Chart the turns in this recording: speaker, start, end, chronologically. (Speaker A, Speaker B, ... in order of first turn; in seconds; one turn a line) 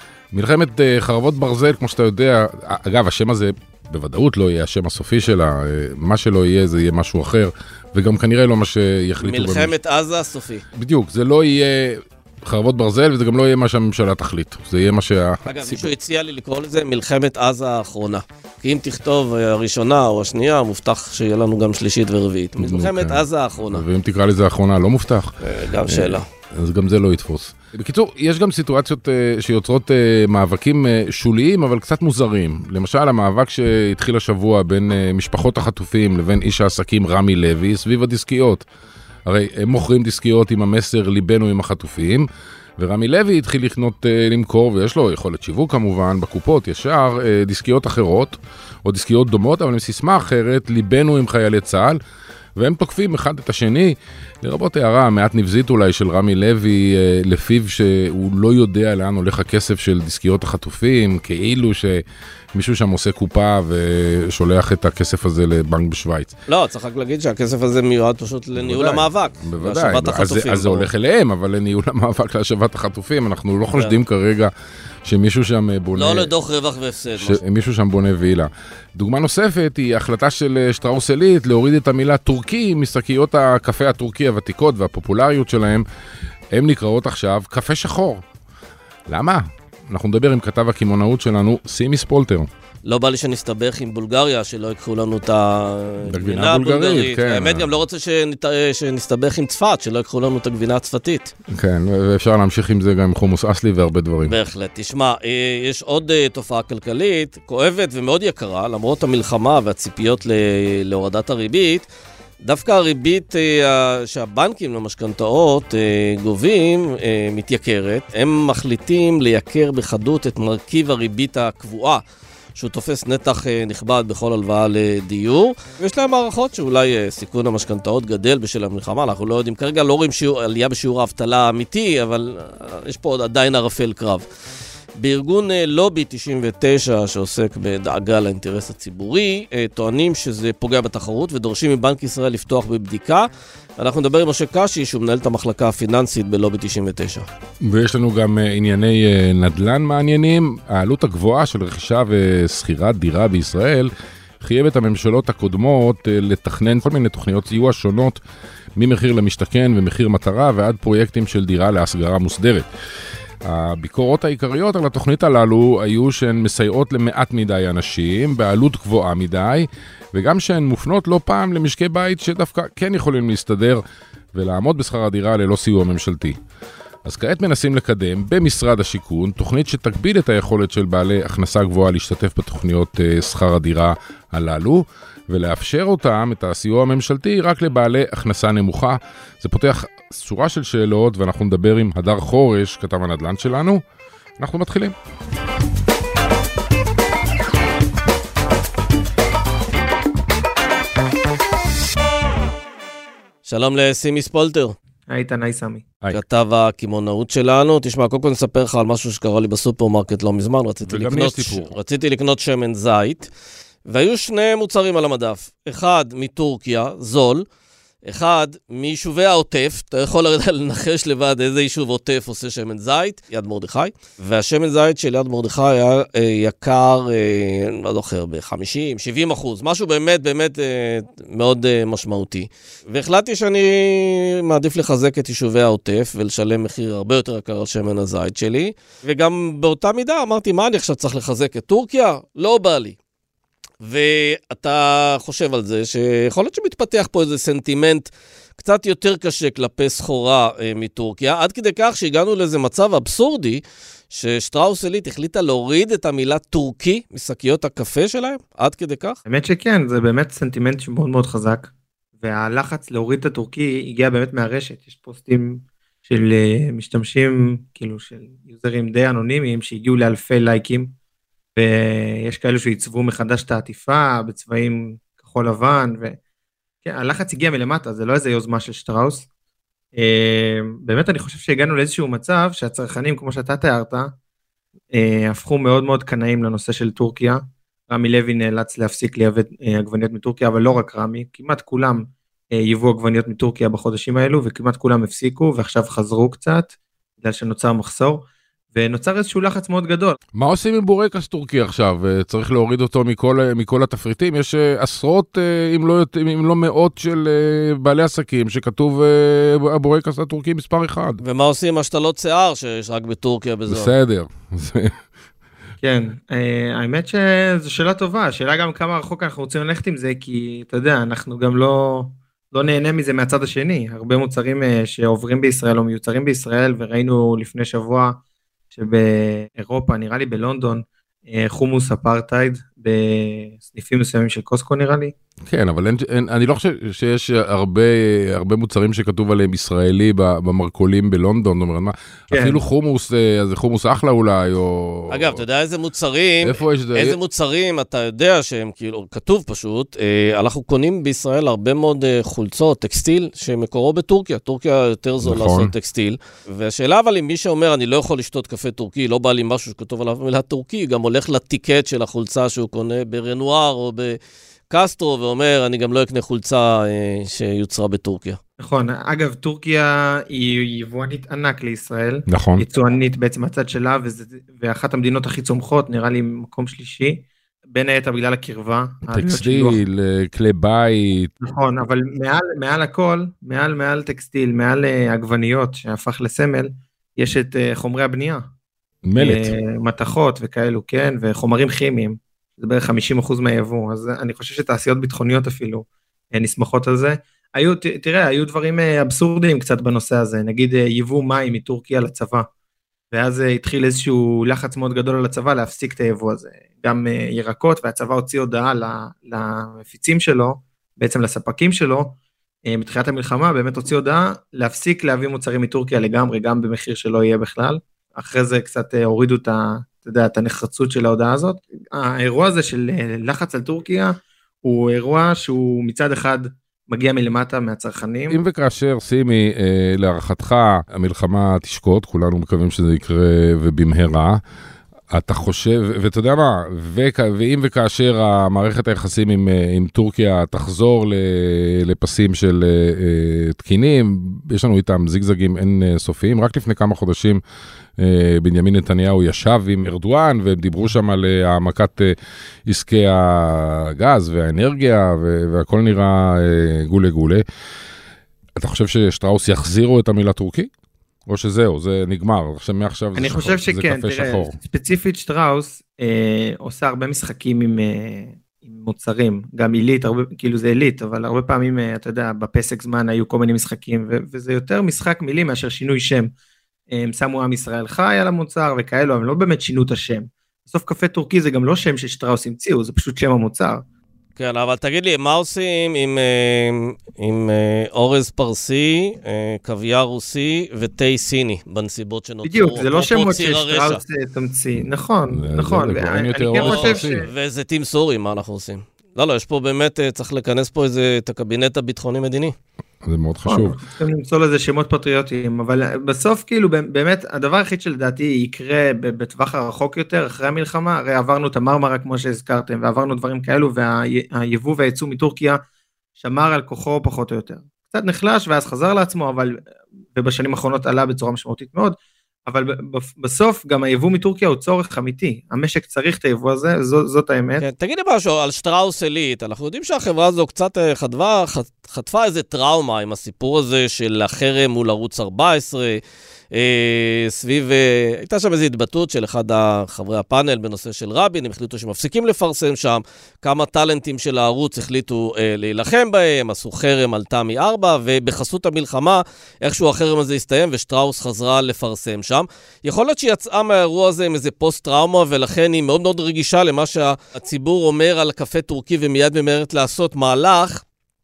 Speaker A: 0.3-9.8
Speaker B: 9.2-10.7
Speaker A: 10.8-15.9
Speaker B: 15.5-23.9
Speaker A: 22.6-38.6
Speaker B: 25.4-26.3
Speaker A: 39.3-42.3
Speaker A: 42.8-52.0
Speaker A: 52.6-62.0
Speaker A: 62.5-66.3
Speaker B: 66.5-70.9
Speaker A: 68.6-74.5
Speaker A: 75.0-76.3
Speaker B: 76.0-77.4
Speaker A: 77.2-85.8
Speaker A: 86.5-88.2
Speaker A: 89.1-92.5
Speaker B: 92.8-101.3
Speaker A: 96.0-97.7
Speaker A: 101.5-104.3
Speaker B: 104.2-111.9
Speaker B: 112.4-122.0
Speaker B: 122.6-134.2
Speaker B: 135.0-143.3
Speaker B: 143.8-147.2
Speaker A: 147.6-158.2
Speaker A: 158.8-162.7
Speaker A: 163.4-173.8
Speaker A: 174.3-176.4
Speaker A: 177.1-193.8
Speaker A: 194.4-194.9
Speaker B: 203.4-204.8
Speaker C: 205.1-205.9
Speaker B: 206.1-213.3
Speaker A: 210.9-211.7
Speaker B: 213.9-217.4
Speaker B: 218.1-243.0
Speaker B: 243.8-253.6
Speaker B: 254.1-259.2
Speaker C: 259.2-270.9
Speaker C: 271.6-276.2
Speaker C: 276.8-279.3
Speaker C: 280.0-284.1
Speaker C: 284.9-300.2
Speaker A: 300.4-311.2
Speaker B: 311.2-313.9
Speaker A: 313.7-314.9
Speaker C: 315.8-328.2
Speaker C: 328.7-335.1
Speaker A: 335.5-345.4
Speaker C: 342.3-342.6
Speaker B: 345.1-364.2
Speaker A: 346.4-347.2
Speaker A: 355.2-355.7
Speaker B: 364.7-368.4
Speaker C: 368.6-379.8
Speaker A: 372.3-372.6
Speaker A: 379.1-381.3
Speaker C: 381.4-388.4
Speaker A: 389.1-389.5
Speaker C: 389.2-402.5
Speaker C: 403.1-428.4
Speaker A: 428.3-434.4
Speaker A: 435.1-447.4
Speaker A: 448.0-452.1
Speaker A: 452.7-457.4
Speaker A: 458.6-460.7
Speaker A: 461.3-464.6
Speaker C: 463.1-476.3
Speaker C: 476.9-483.8
Speaker B: 484.4-494.0
Speaker C: 492.4-497.3
Speaker A: 495.3-497.3
Speaker B: 496.6-502.5
Speaker A: 503.0-503.8
Speaker C: 503.5-515.6
Speaker C: 516.2-519.6
Speaker C: 520.1-527.6
Speaker B: 527.6-536.0
Speaker B: 536.5-560.8